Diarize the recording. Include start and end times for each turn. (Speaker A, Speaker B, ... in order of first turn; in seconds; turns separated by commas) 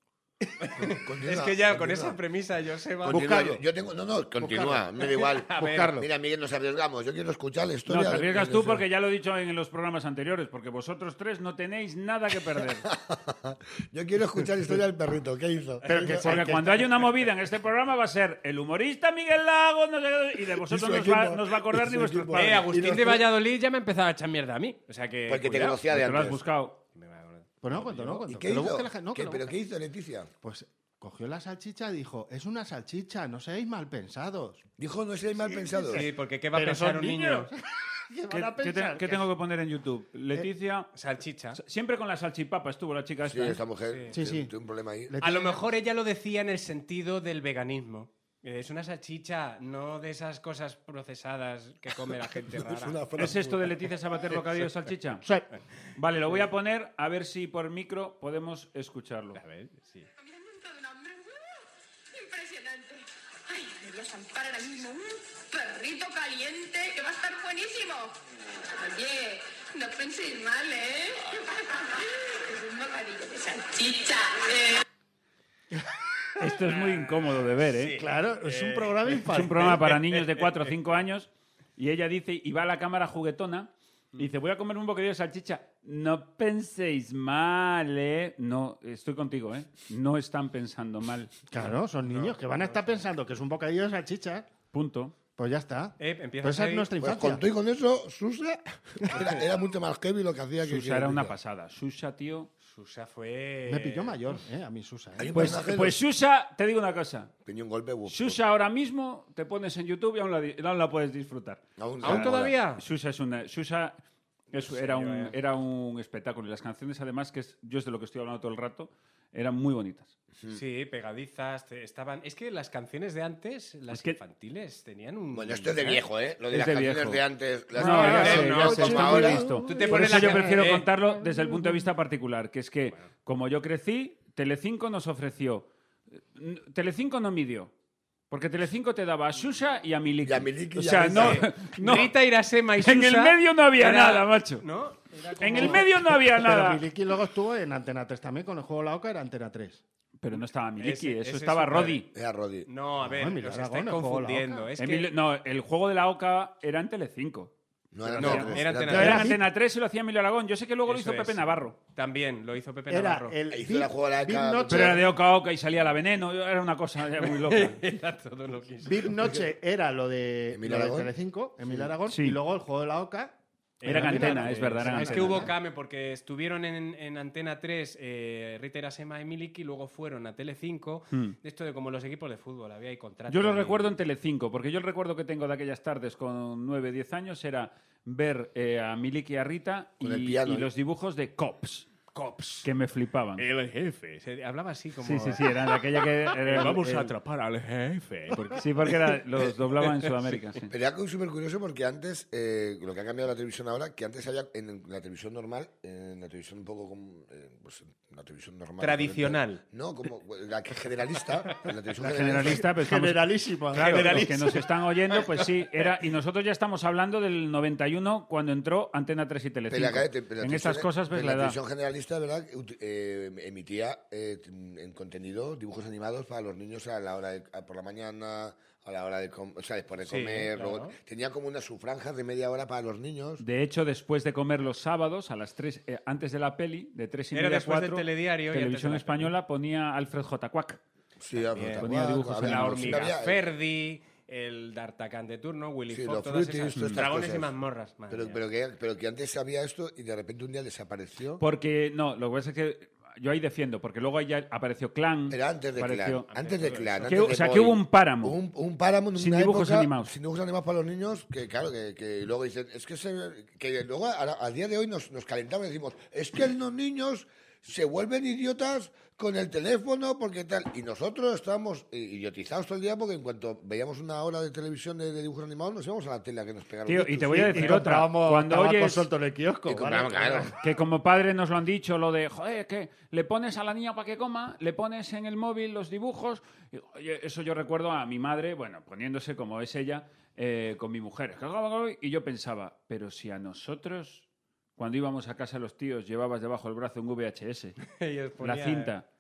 Speaker A: 0.4-0.9, Speaker B: 0.7-3.3, Speaker C: 1.0-2.2, Speaker C: 3.0-8.8, Speaker A: 3.0-3.6, Speaker A: 4.4-6.1, Speaker B: 5.2-6.0, Speaker D: 7.9-12.8, Speaker C: 12.8-16.5, Speaker A: 15.9-16.9, Speaker B: 15.9-16.2, Speaker D: 16.2-22.6, Speaker C: 20.5-22.7, Speaker B: 22.4-25.8, Speaker A: 22.7-23.2, Speaker C: 25.3-26.4, Speaker D: 25.9-26.8, Speaker B: 26.9-28.3, Speaker A: 27.6-29.5, Speaker C: 28.2-30.3, Speaker A: 30.4-34.6, Speaker C: 34.8-36.0, Speaker A: 35.4-39.3, Speaker B: 35.9-37.5, Speaker D: 38.3-40.9, Speaker B: 40.9-41.6, Speaker D: 41.5-43.6, Speaker C: 43.2-45.1, Speaker B: 43.9-44.2, Speaker A: 44.1-44.5, Speaker A: 45.1-45.6, Speaker B: 45.2-53.1, Speaker C: 52.5-54.4, Speaker D: 53.2-55.2, Speaker A: 55.2-55.5, Speaker D: 56.0-59.4, Speaker B: 59.4-60.1, Speaker E: 60.2-68.2, Speaker E: 68.7-74.8, Speaker D: 76.4-78.0, Speaker B: 76.7-80.7, Speaker A: 78.0-79.8, Speaker D: 79.3-91.5, Speaker A: 91.5-94.5, Speaker B: 92.0-93.0, Speaker D: 94.7-95.1, Speaker A: 95.4-97.4, Speaker B: 96.0-96.9, Speaker C: 97.0-101.3, Speaker D: 100.6-102.5, Speaker B: 102.6-104.4, Speaker A: 103.7-105.6, Speaker C: 105.2-106.0, Speaker D: 105.3-107.3, Speaker C: 107.5-108.4, Speaker D: 108.0-114.0, Speaker C: 111.8-112.5, Speaker B: 112.0-112.8, Speaker D: 114.5-120.1, Speaker B: 114.6-115.4, Speaker B: 120.5-126.0, Speaker D: 123.9-124.2, Speaker C: 125.3-130.3, Speaker D: 126.5-135.7, Speaker A: 127.8-130.4, Speaker B: 127.8-130.9, Speaker D: 136.3-137.7, Speaker D: 138.3-142.1, Speaker C: 140.2-141.5, Speaker B: 141.1-145.9, Speaker D: 142.8-144.6, Speaker D: 145.4-146.8, Speaker A: 145.4-149.8, Speaker D: 150.2-152.1, Speaker B: 150.8-152.1, Speaker C: 152.1-152.7, Speaker B: 152.7-155.1, Speaker A: 153.1-154.7, Speaker D: 154.8-161.8, Speaker C: 157.9-159.2, Speaker B: 158.2-159.4, Speaker A: 158.3-159.4, Speaker B: 160.9-163.4, Speaker A: 162.9-165.1, Speaker C: 163.5-165.0, Speaker D: 164.7-167.8, Speaker B: 167.2-169.1, Speaker A: 168.8-175.5, Speaker C: 169.2-169.5, Speaker C: 170.5-171.1, Speaker D: 172.1-172.4, Speaker B: 173.8-183.9, Speaker D: 173.9-175.5, Speaker D: 183.3-191.9, Speaker C: 190.0-190.7, Speaker B: 192.1-192.7, Speaker D: 192.6-193.4, Speaker B: 193.4-199.2, Speaker D: 195.0-197.1, Speaker D: 198.6-200.7, Speaker B: 199.8-200.4, Speaker C: 200.7-212.6, Speaker B: 208.8-209.6, Speaker D: 212.0-221.6, Speaker A: 212.3-214.5, Speaker B: 213.7-215.9, Speaker C: 219.7-233.4, Speaker B: 230.1-230.9, Speaker D: 233.4-240.8, Speaker B: 237.3-239.3, Speaker C: 241.2-243.4, Speaker B: 241.5-248.4, Speaker D: 241.8-243.1, Speaker C: 245.9-247.5, Speaker D: 246.7-247.0, Speaker C: 248.1-251.4, Speaker D: 251.4-256.3, Speaker C: 255.3-277.9, Speaker B: 256.3-257.4, Speaker D: 257.1-258.4, Speaker D: 259.1-260.1, Speaker D: 276.9-279.1, Speaker A: 277.2-280.6, Speaker C: 279.7-280.6, Speaker D: 280.6-294.2, Speaker D: 294.8-297.8, Speaker B: 297.9-298.9, Speaker D: 298.4-299.1